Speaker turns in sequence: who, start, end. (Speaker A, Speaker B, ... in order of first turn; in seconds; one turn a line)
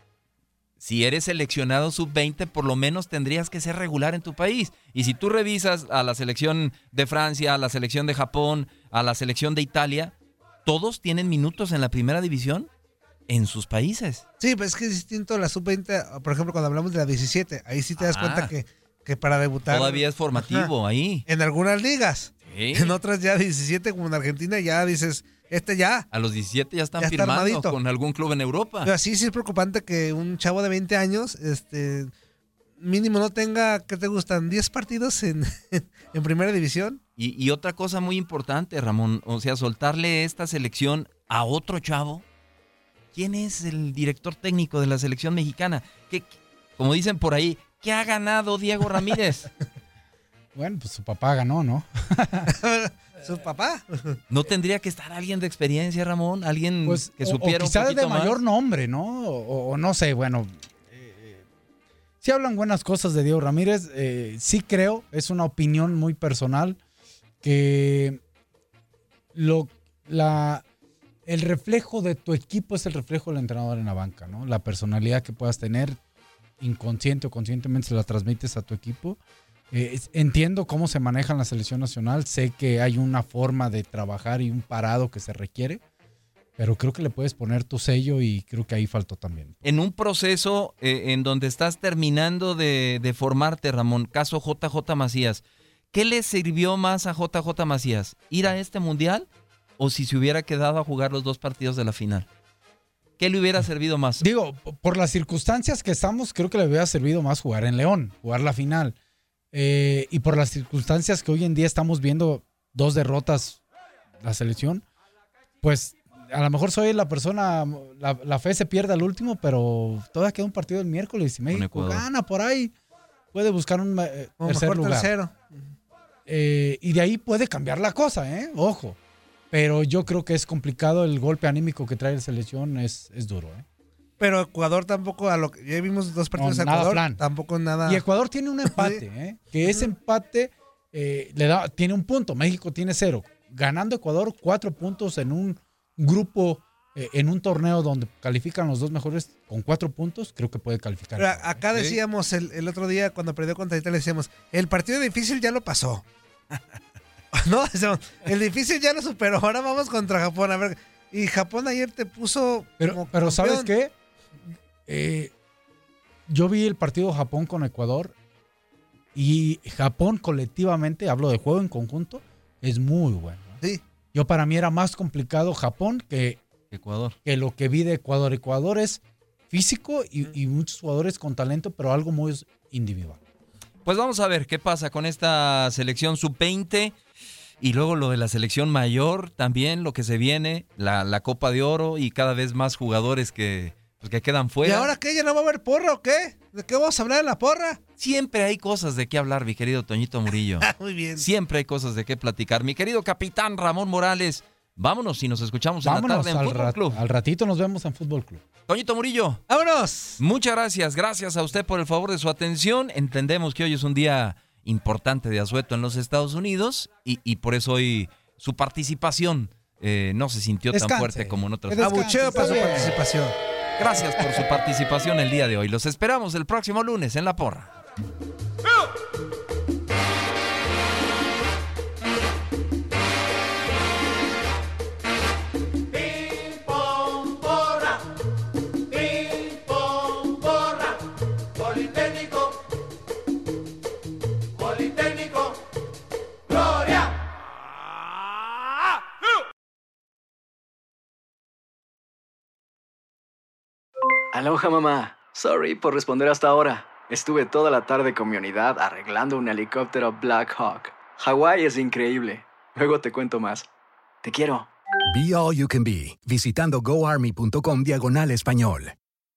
Speaker A: 0.8-10.1
Speaker A: 10.6-12.7
Speaker A: 13.3-14.2
Speaker B: 14.4-20.7
Speaker A: 18.0-18.5
Speaker A: 19.7-21.2
Speaker B: 21.3-26.1
Speaker A: 22.4-22.9
Speaker A: 26.1-28.9
Speaker B: 27.0-27.8
Speaker B: 28.8-32.1
Speaker B: 32.8-37.0
Speaker A: 37.2-42.2
Speaker A: 43.1-49.5
Speaker C: 50.5-52.5
Speaker B: 52.5-54.2
Speaker A: 54.3-58.4
Speaker C: 56.8-61.4
Speaker C: 62.2-66.8
Speaker C: 67.4-68.2
Speaker C: 69.3-70.6
Speaker C: 71.2-76.0
Speaker C: 76.6-79.2
Speaker C: 79.7-85.8
Speaker C: 86.6-89.6
Speaker A: 89.6-99.3
Speaker A: 99.8-102.3
Speaker A: 103.2-104.2
Speaker C: 104.2-109.0
Speaker C: 109.5-113.6
Speaker C: 114.2-114.8
Speaker C: 115.6-122.7
Speaker A: 121.5-122.0
Speaker C: 123.3-125.1
Speaker B: 124.4-125.7
Speaker C: 126.3-129.0
Speaker C: 129.5-133.6
Speaker B: 134.2-138.0
Speaker C: 136.3-137.2
Speaker C: 137.8-151.6
Speaker B: 138.7-139.0
Speaker B: 151.2-156.0
Speaker A: 151.7-152.0
Speaker B: 157.3-163.7
Speaker C: 162.8-163.9
Speaker C: 164.8-165.3
Speaker C: 166.3-168.1
Speaker C: 169.1-173.6
Speaker C: 174.1-176.4
Speaker A: 176.7-177.2
Speaker C: 177.2-183.2
Speaker A: 183.8-186.9
Speaker A: 187.6-194.9
Speaker B: 194.6-197.8
Speaker A: 198.0-207.0
Speaker B: 200.7-201.2
Speaker C: 205.8-208.4
Speaker A: 208.7-209.4
Speaker B: 209.5-210.2
Speaker A: 210.2-222.7
Speaker C: 220.7-223.0
Speaker B: 221.8-223.3
Speaker A: 223.8-227.7
Speaker D: 254.3-263.6
Speaker D: 264.2-264.7
Speaker E: 265.1-268.9